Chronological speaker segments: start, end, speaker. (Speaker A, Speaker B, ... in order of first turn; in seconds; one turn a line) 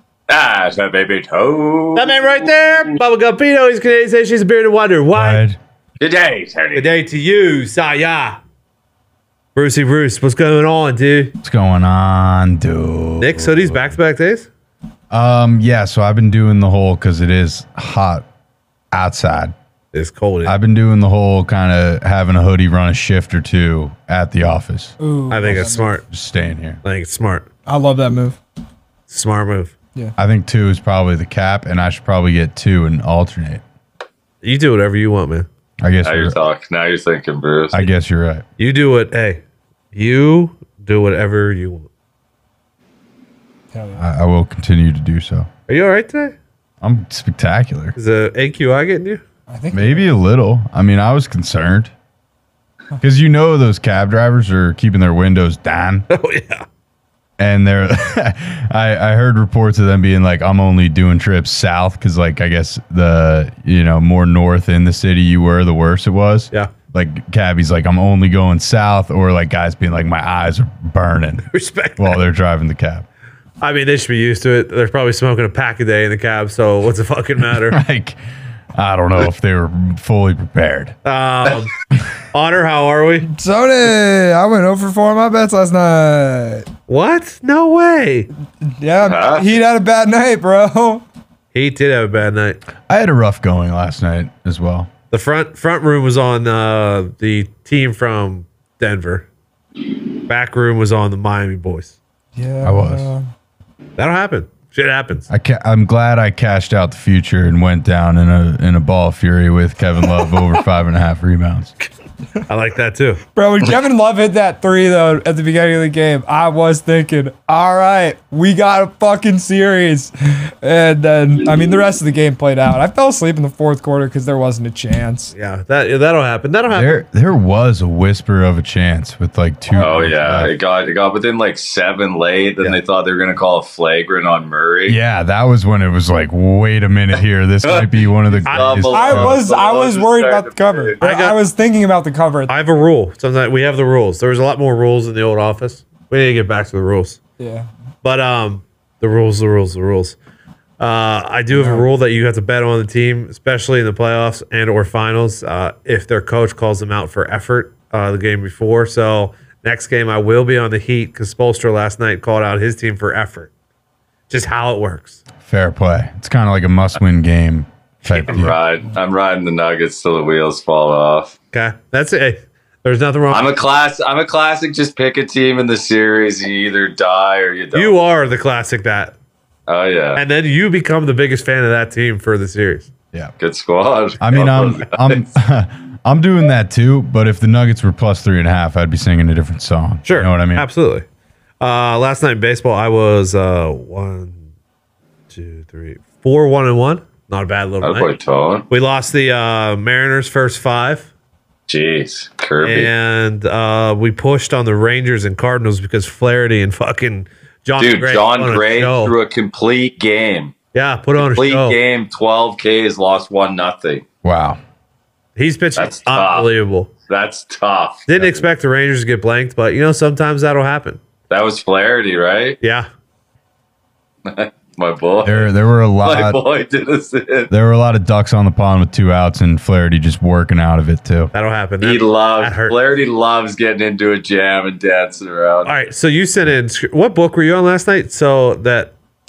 Speaker A: 0.3-2.2
Speaker B: 2.0-5.4
Speaker C: 5.1-5.6
Speaker A: 6.0-6.9
Speaker B: 6.8-8.4
Speaker B: 9.6-11.4
Speaker C: 11.4-13.9
Speaker B: 13.2-14.5
Speaker C: 15.1-18.3
Speaker C: 18.9-19.5
Speaker B: 19.9-20.6
Speaker C: 20.4-24.9
Speaker D: 25.0-26.0
Speaker B: 25.3-26.0
Speaker C: 26.1-26.8
Speaker B: 26.8-27.5
Speaker D: 27.7-28.4
Speaker B: 29.1-29.7
Speaker C: 30.2-33.6
Speaker B: 34.4-35.5
Speaker C: 35.8-36.4
Speaker A: 36.0-37.9
Speaker C: 37.7-38.4
Speaker B: 38.6-39.4
Speaker B: 39.9-41.9
Speaker D: 43.7-44.0
Speaker C: 44.0-45.5
Speaker B: 45.7-46.4
Speaker C: 46.8-48.0
Speaker B: 48.0-49.2
Speaker D: 49.5-50.1
Speaker C: 49.7-51.9
Speaker C: 53.0-56.1
Speaker B: 56.1-56.6
Speaker C: 57.4-73.1
Speaker B: 71.5-72.2
Speaker B: 73.6-77.8
Speaker C: 77.5-78.2
Speaker C: 78.7-81.0
Speaker B: 81.0-81.7
Speaker B: 82.3-83.3
Speaker D: 83.3-86.7
Speaker B: 86.9-88.3
Speaker D: 88.6-91.0
Speaker A: 89.0-89.6
Speaker B: 91.5-92.6
Speaker C: 92.9-94.9
Speaker B: 95.1-99.3
Speaker B: 100.3-102.0
Speaker D: 102.4-103.2
Speaker C: 102.6-103.1
Speaker B: 104.0-105.3
Speaker C: 105.3-111.7
Speaker B: 112.5-113.2
Speaker D: 113.3-125.3
Speaker B: 125.3-127.0
Speaker C: 126.7-130.5
Speaker A: 129.8-135.0
Speaker C: 134.9-139.4
Speaker A: 137.6-141.0
Speaker B: 138.4-139.0
Speaker D: 138.9-142.5
Speaker B: 141.0-141.4
Speaker B: 142.5-147.2
Speaker D: 147.4-147.7
Speaker B: 148.0-150.2
Speaker B: 150.8-163.5
Speaker D: 151.5-151.9
Speaker B: 164.3-165.2
Speaker C: 165.4-168.6
Speaker B: 168.1-168.5
Speaker A: 168.3-171.3
Speaker B: 171.5-173.5
Speaker A: 173.3-178.0
Speaker B: 177.7-179.1
Speaker A: 179.7-180.2
Speaker B: 180.2-182.9
Speaker A: 183.4-185.3
Speaker C: 184.2-190.7
Speaker B: 190.0-191.1
Speaker B: 191.6-194.4
Speaker B: 195.3-198.1
Speaker A: 197.8-198.7
Speaker B: 198.7-201.1
Speaker A: 201.7-202.9
Speaker B: 202.6-209.2
Speaker A: 207.8-210.6
Speaker B: 210.7-211.8
Speaker A: 211.2-214.0
Speaker C: 214.2-214.6
Speaker B: 215.4-216.9
Speaker A: 215.8-216.5
Speaker A: 217.1-218.4
Speaker B: 218.1-221.0
Speaker A: 221.3-222.6
Speaker B: 222.6-222.9
Speaker A: 224.3-227.5
Speaker C: 225.2-226.4
Speaker C: 227.5-231.3
Speaker B: 231.3-232.8
Speaker A: 231.8-235.8
Speaker B: 235.7-238.9